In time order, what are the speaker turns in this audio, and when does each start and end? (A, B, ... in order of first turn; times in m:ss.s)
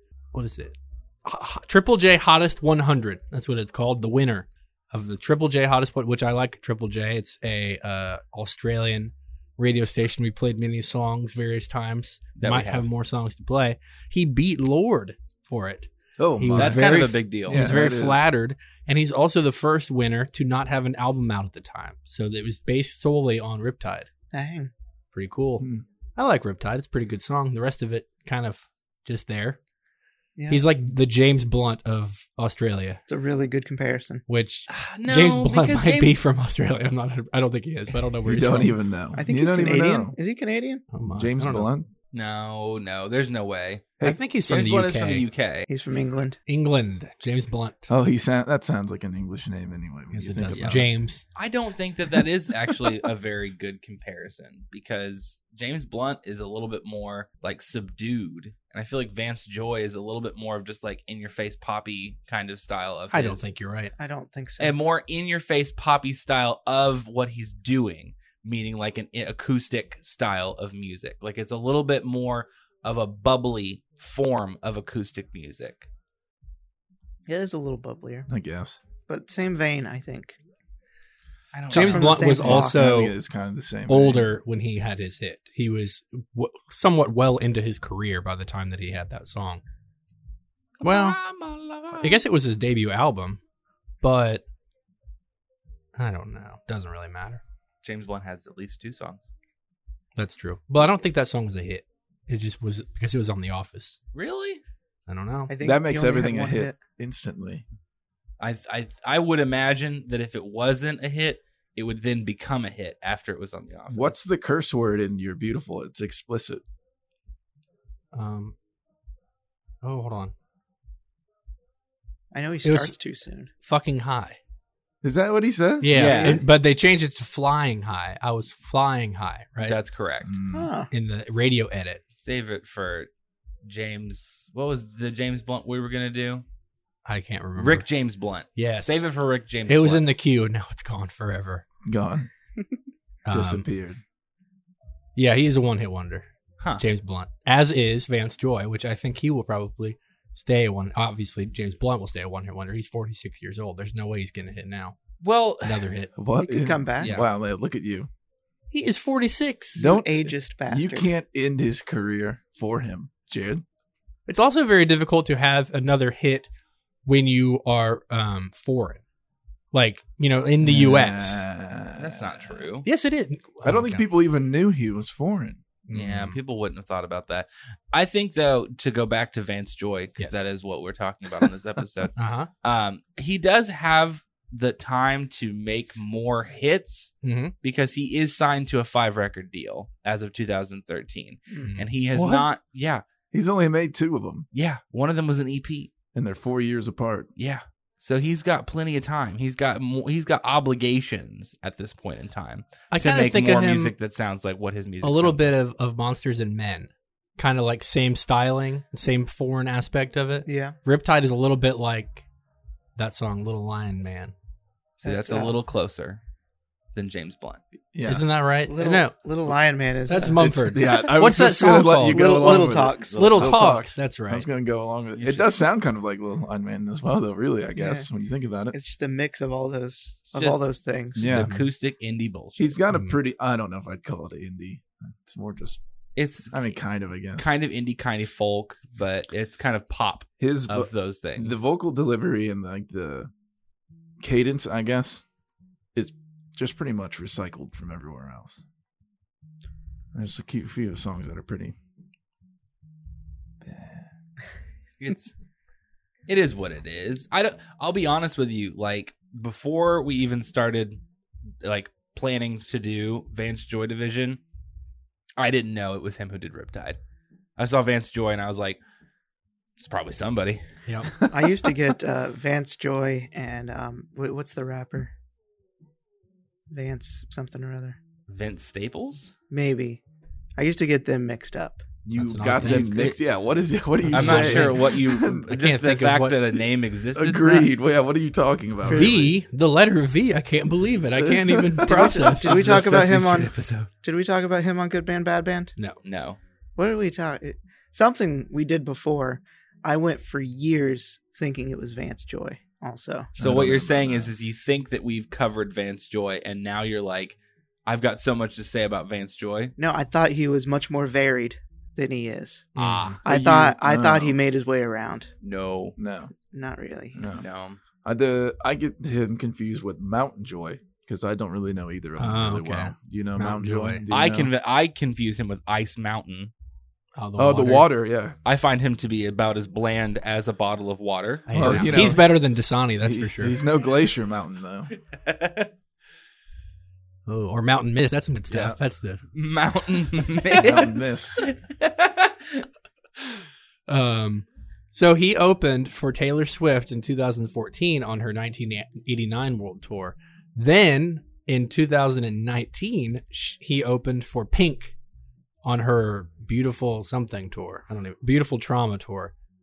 0:00.3-0:24.1 A
0:12.4-0:12.9 B
0:16.2-0:16.9 C
0:16.5-0:17.6 B
0:17.4-0:18.2 C
0:24.3-0:24.7 D
0:25.1-0:29.6 A
0:25.6-0:25.8 C
0:30.4-0:30.6 D
0:30.5-0:33.0 A
0:33.1-0:34.2 D
0:34.3-0:38.8 A
0:34.7-0:36.2 B
0:38.2-0:40.2 C
0:39.2-0:40.8 D
0:40.9-0:41.7 A
0:41.2-0:41.9 C
0:42.1-0:43.9 B
0:44.0-0:45.3 A
0:44.5-0:45.7 B
0:45.7-0:46.4 D
0:46.4-0:47.9 A
0:47.9-0:50.9 C
0:50.1-0:51.2 A
0:50.6-0:50.8 B
0:51.3-1:03.5 B
0:52.7-0:53.0 C
1:03.1-1:03.9 A
1:04.0-1:04.7 D
1:04.6-1:15.9 B
1:17.3-1:18.3 D
1:18.3-1:18.8 C
1:19.1-1:20.4 D
1:21.6-1:22.8 D
1:21.6-1:22.0 B
1:21.7-1:23.1 A
1:21.8-1:24.3 C
1:23.9-1:29.6 A
1:30.8-1:32.2 B
1:30.8-1:31.2 A
1:31.9-1:33.4 A
1:34.0-1:34.4 A
1:36.0-1:37.4 A
1:37.8-1:39.3 B
1:40.2-1:44.0 A
1:44.1-1:44.6 B
1:45.1-1:45.5 A
1:45.5-1:46.8 D
1:45.6-1:47.6 C
1:48.4-1:54.1 B
1:53.9-1:56.6 C
1:58.1-1:58.5 A
1:59.8-2:00.3 A
2:02.3-2:03.5 D
2:02.6-2:02.9 A
2:03.6-2:04.4 A
2:05.0-2:06.4 C
2:05.8-2:09.8 A
2:05.9-2:06.4 B
2:09.6-2:10.4 B
2:10.2-2:10.7 C
2:10.5-2:10.9 D
2:10.9-2:12.0 A
2:12.2-2:13.1 B
2:13.6-2:16.4 B
2:17.0-2:17.8 A
2:17.6-2:20.0 B
2:18.6-2:19.0 A
2:19.7-2:21.6 A
2:21.8-2:22.3 C
2:23.2-2:23.7 A
2:23.3-2:24.0 C
2:25.2-2:26.3 A
2:26.8-2:35.0 A
2:35.2-2:35.9 B
2:35.6-2:36.1 A
2:36.2-2:38.1 C
2:36.4-2:37.2 D
2:37.0-2:37.3 B
2:38.7-2:39.8 A
2:39.8-2:43.6 C
2:39.8-2:41.1 D
2:44.3-2:46.5 A
2:47.0-2:49.0 A
2:49.7-2:51.4 A
2:50.6-2:52.6 C
2:52.0-2:52.9 B
2:52.8-2:54.0 A
2:53.6-2:55.6 C
2:55.9-2:56.4 A
2:55.9-3:13.0 B
3:02.1-3:02.5 A
3:07.2-3:07.5 A
3:11.6-3:11.9 A
3:12.1-3:12.5 C
3:13.3-3:14.4 C
3:14.5-3:15.9 B
3:16.1-3:17.3 C
3:17.4-3:25.5 B
3:22.9-3:23.9 A
3:25.0-3:32.2 A
3:30.4-3:30.8 D
3:33.0-3:34.3 A
3:35.0-3:36.2 B
3:35.0-3:35.6 D
3:36.9-3:37.6 B
3:37.9-3:38.3 C
3:38.1-3:39.1 A
3:38.7-3:40.8 D
3:40.1-3:44.5 A
3:40.4-3:48.8 C
3:42.1-3:43.7 D
3:45.2-3:45.5 B
3:47.8-3:48.1 D
3:48.7-3:51.3 D
3:50.3-3:50.6 B
3:51.2-3:51.5 C
3:51.2-3:52.8 B
3:51.4-3:51.6 A
3:52.6-3:55.8 C
3:52.9-3:53.2 A
3:56.2-3:56.7 B
3:56.5-3:57.5 C
3:57.4-4:01.6 B
4:00.4-4:03.3 C
4:04.2-4:05.2 C
4:05.9-4:08.6 C
4:10.1-4:11.7 C
4:13.6-4:14.1 C
4:15.0-4:15.3 B
4:16.3-4:21.0 B
4:21.6-4:24.4 B
4:25.4-4:27.0 B
4:27.6-4:28.8 B
4:29.8-4:30.6 B
4:31.2-4:35.1 D
4:31.3-4:31.6 C
4:36.7-4:38.0 D
4:38.3-4:39.3 B
4:39.5-4:40.0 D
4:40.6-4:41.8 D
4:42.0-4:45.5 C
4:42.1-4:43.1 A
4:42.6-4:43.2 B
4:44.0-4:46.4 A
4:44.1-4:47.6 B
4:47.1-4:49.3 C
4:48.9-4:52.8 A
4:48.9-4:49.2 D
4:51.2-4:52.3 C
4:51.8-4:55.7 D
4:52.4-4:53.9 B
4:56.0-4:56.4 B
4:56.8-5:03.3 D
5:03.4-5:04.3 C
5:03.4-5:09.7 B
5:09.8-5:12.7 D
5:12.8-5:13.2 A
5:12.8-5:13.2 B
5:13.2-5:15.3 D
5:13.2-5:14.4 C
5:15.4-5:16.0 B
5:16.0-5:16.3 C
5:16.5-5:17.2 D
5:17.1-5:17.5 C
5:17.4-5:17.8 B
5:18.0-5:24.5 C
5:22.2-5:24.0 A
5:24.1-5:26.5 B
5:27.2-5:27.9 A
5:27.4-5:28.4 C
5:28.4-5:32.2 B
5:31.4-5:33.5 A
5:31.5-5:32.4 C
5:33.0-5:34.9 C
5:35.1-5:35.7 B
5:37.3-5:39.2 A
5:39.3-5:42.6 B
5:40.5-5:40.8 A
5:40.5-5:41.4 C
5:43.9-5:55.0 A
5:55.6-5:59.3 A